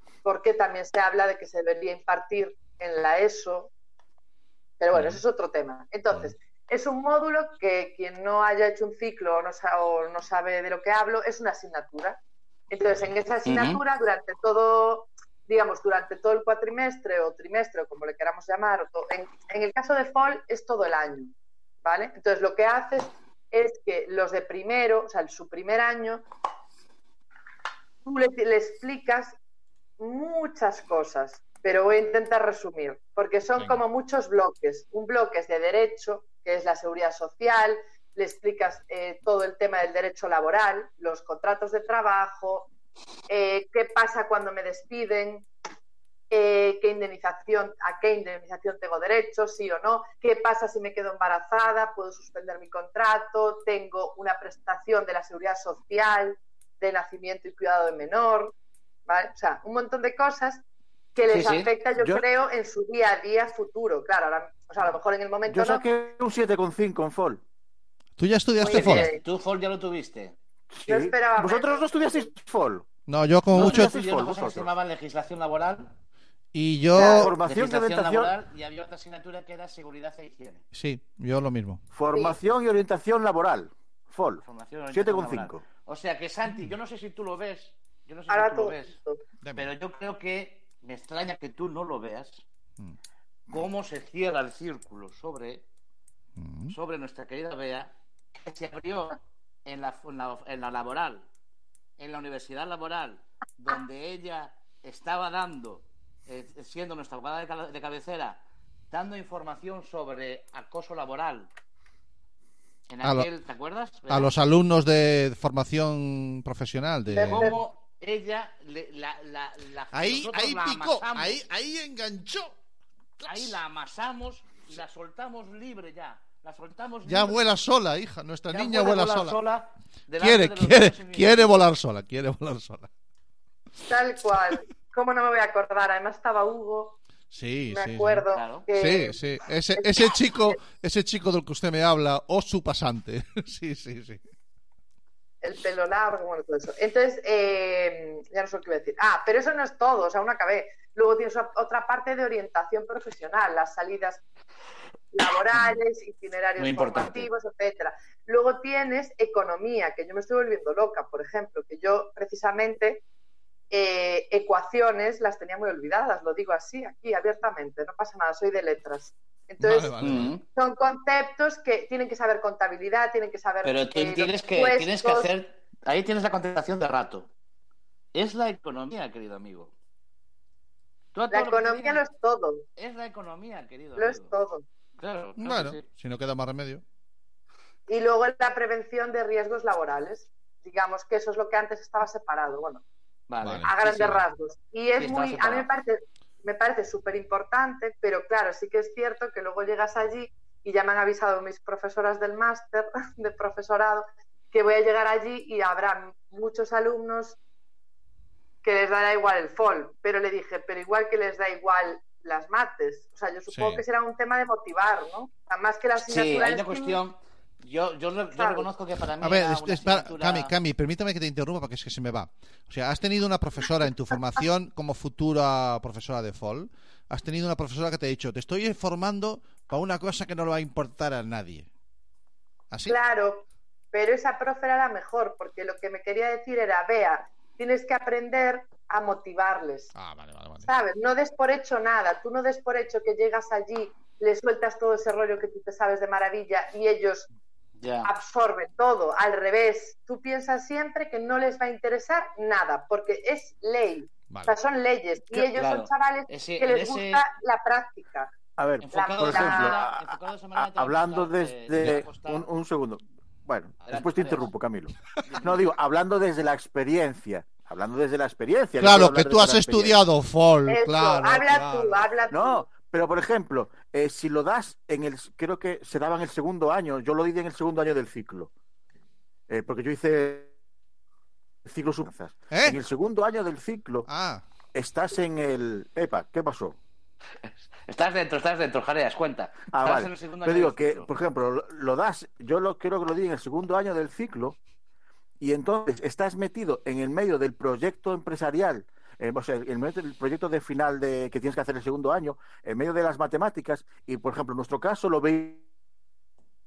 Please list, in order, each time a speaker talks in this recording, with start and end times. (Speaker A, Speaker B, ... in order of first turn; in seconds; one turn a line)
Speaker A: 0.2-3.7
Speaker A: 4.8-12.2
Speaker B: 4.9-5.2
Speaker A: 12.7-21.3
Speaker C: 13.4-13.8
Speaker A: 21.8-26.2
Speaker A: 28.0-29.4
Speaker A: 30.0-42.7
Speaker A: 43.3-45.5
Speaker A: 46.3-58.5
Speaker A: 59.1-60.6
Speaker A: 61.1-65.8
Speaker C: 61.3-61.7
Speaker D: 62.0-62.2
Speaker D: 65.5-67.4
Speaker B: 68.2-69.1
Speaker A: 68.6-69.2
Speaker C: 68.7-70.3
Speaker D: 70.7-72.8
Speaker A: 70.9-72.3
Speaker B: 73.1-73.9
Speaker D: 73.5-74.7
Speaker C: 73.5-75.9
Speaker B: 76.5-77.3
Speaker D: 76.9-78.3
Speaker A: 76.9-77.3
Speaker C: 77.3-80.6
Speaker B: 80.7-81.8
Speaker D: 81.9-85.6
Speaker A: 82.1-82.4
Speaker C: 84.4-89.0
Speaker A: 88.3-89.2
Speaker B: 89.4-89.7
Speaker C: 89.5-92.4
Speaker C: 93.5-95.6
Speaker B: 96.4-96.7
Speaker C: 96.7-101.2
Speaker C: 102.0-111.5
Speaker C: 112.9-114.3
Speaker B: 114.1-117.5
Speaker A: 117.1-117.6
Speaker C: 117.2-121.4
Speaker B: 119.9-122.5
Speaker B: 123.2-123.6
Speaker C: 123.2-127.4
Speaker B: 127.0-129.4
Speaker C: 128.5-131.6
Speaker B: 130.2-132.9
Speaker A: 133.8-137.0
Speaker B: 137.3-144.2
Speaker A: 137.7-139.2
Speaker C: 138.3-138.7
Speaker A: 139.8-140.6
Speaker A: 145.4-154.2
Speaker A: 155.1-163.0
Speaker C: 156.6-157.3
Speaker A: 163.7-175.3
Speaker B: 169.6-170.3
Speaker C: 170.0-170.4
Speaker C: 173.6-177.3
Speaker C: 178.1-179.7
Speaker C: 181.1-182.0
Speaker A: 181.3-182.7
Speaker C: 182.8-184.3
Speaker A: 184.0-184.6
Speaker C: 185.0-185.8
Speaker B: 185.4-186.8
Speaker A: 187.9-192.8
Speaker C: 193.3-194.2
Speaker B: 193.4-194.2
Speaker A: 193.6-207.4
Speaker C: 195.0-195.7
Speaker A: 208.6-217.0
Speaker B: 213.5-213.8
Speaker C: 216.1-220.5
Speaker A: 218.3-218.7
Speaker B: 219.2-231.7
Speaker B: 232.7-232.9
Speaker A: 232.9-239.9
Speaker B: 239.9-240.7
Speaker A: 240.6-247.3
Speaker C: 247.8-248.1
Speaker A: 248.0-258.3
Speaker B: 254.3-254.6
Speaker C: 255.3-257.2
Speaker D: 258.6-270.0
Speaker C: 258.8-262.5
Speaker A: 258.9-259.8
Speaker C: 263.8-264.5
Speaker C: 265.2-265.7
Speaker B: 268.8-272.1
Speaker A: 270.7-272.6
Speaker D: 272.3-278.5
Speaker D: 279.5-280.5
Speaker D: 281.6-284.1
Speaker B: 282.5-282.8
Speaker B: 284.1-284.4
Speaker D: 284.7-286.8
Speaker C: 287.4-291.1
Speaker D: 289.7-294.6
Speaker D: 295.4-305.6